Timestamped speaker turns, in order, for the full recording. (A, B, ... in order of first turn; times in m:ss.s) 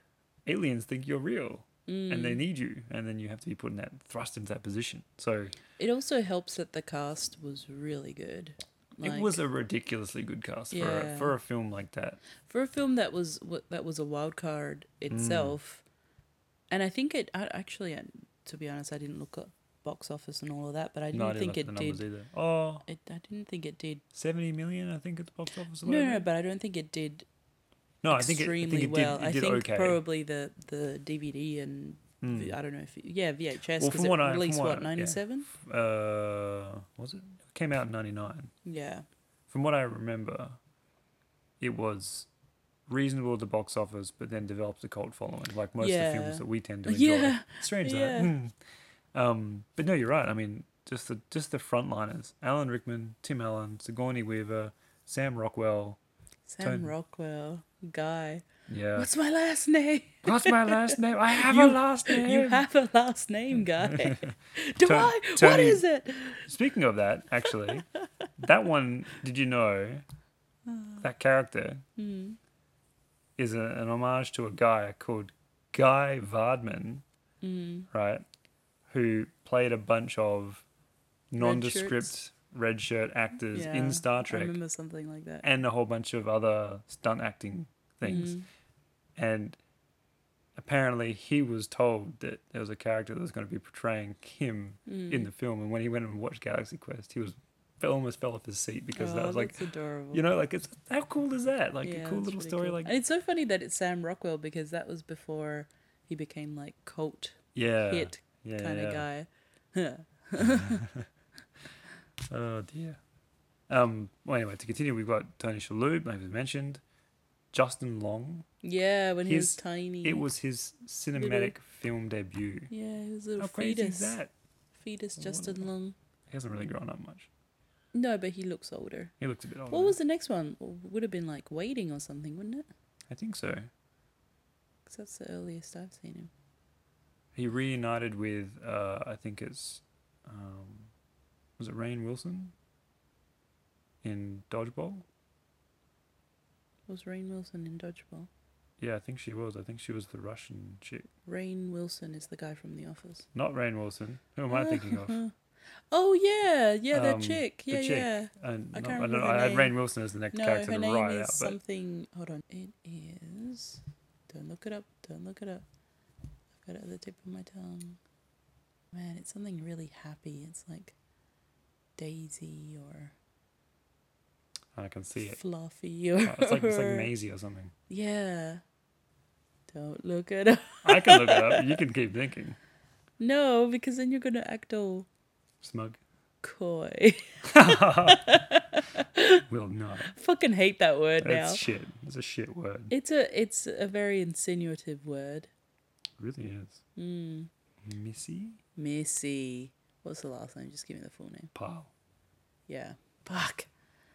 0:00.4-0:05.5 A
0:01.9-0:02.4 B
0:05.8-0:09.4 B
0:09.0-0:12.2 A
0:10.7-0:11.3 B
0:12.4-0:15.8 B
0:15.1-0:15.6 A
0:16.7-0:22.0 B
0:21.1-0:22.8 A
0:22.8-0:24.0 B
0:24.1-0:26.2 A
0:25.8-0:27.2 B
0:28.0-0:30.0 A
0:28.1-0:35.5 B
0:32.2-0:32.6 A
0:33.8-0:38.5 A
0:38.6-0:39.0 B
0:39.5-0:40.6 A
0:41.6-0:42.3 A
0:42.9-0:48.5 A
0:45.8-0:48.3 B
0:49.1-0:56.0 A
0:56.5-1:06.4 B
0:56.6-0:56.9 A
0:58.7-0:59.1 A
1:00.2-1:02.6 A
1:03.6-1:05.8 A
1:06.4-1:07.9 A
1:08.4-1:10.0 A
1:10.7-1:11.0 B
1:11.0-1:11.8 A
1:12.0-1:12.4 B
1:13.4-1:17.0 A
1:17.4-1:17.9 B
1:17.9-1:18.2 A
1:18.9-1:20.6 A
1:21.3-1:24.6 A
1:21.4-1:22.1 B
1:23.5-1:25.4 B
1:25.4-1:28.4 A
1:28.0-1:28.4 B
1:29.2-1:29.6 A
1:30.6-1:39.6 A
1:34.9-1:35.3 B
1:38.9-1:40.2 B
1:40.1-1:42.9 A
1:41.8-1:50.8 B
1:47.5-1:49.0 A
1:50.4-1:51.1 A
1:52.3-1:53.0 A
1:53.7-1:56.8 A
1:57.5-1:58.4 A
1:58.6-2:00.2 B
1:59.2-2:02.7 A
2:01.2-2:01.5 B
2:02.7-2:04.2 B
2:03.4-2:04.3 A
2:04.8-2:06.0 B
2:05.2-2:05.7 A
2:06.3-2:07.3 A
2:07.9-2:09.1 B
2:09.2-2:10.0 A
2:09.7-2:12.6 B
2:13.1-2:13.7 A
2:14.9-2:16.3 B
2:17.3-2:20.9 A
2:21.6-2:22.5 A
2:24.0-2:25.0 A
2:26.9-2:28.3 B
2:28.8-2:31.1 A
2:31.2-2:33.3 B
2:33.3-2:35.2 A
2:34.5-2:35.3 B
2:35.9-2:39.7 B
2:36.9-2:41.6 A
2:40.3-2:45.6 B
2:46.6-2:48.0 B
2:48.9-2:50.9 B
2:52.0-2:53.1 B
2:54.7-2:55.4 A
2:55.2-2:57.1 B
2:56.2-2:57.7 A
2:57.9-2:58.6 B
2:59.7-3:01.8 B
3:00.8-3:02.6 A
3:03.2-3:05.1 B
3:05.6-3:06.0 A
3:06.4-3:09.4 B
3:07.4-3:08.4 A
3:09.5-3:10.1 A
3:10.0-3:11.6 B
3:11.2-3:12.9 A
3:12.9-3:15.5 B
3:16.2-3:16.8 A
3:17.0-3:17.5 B
3:17.8-3:18.6 A
3:18.8-3:21.5 B
3:21.5-3:21.9 A
3:22.7-3:23.7 B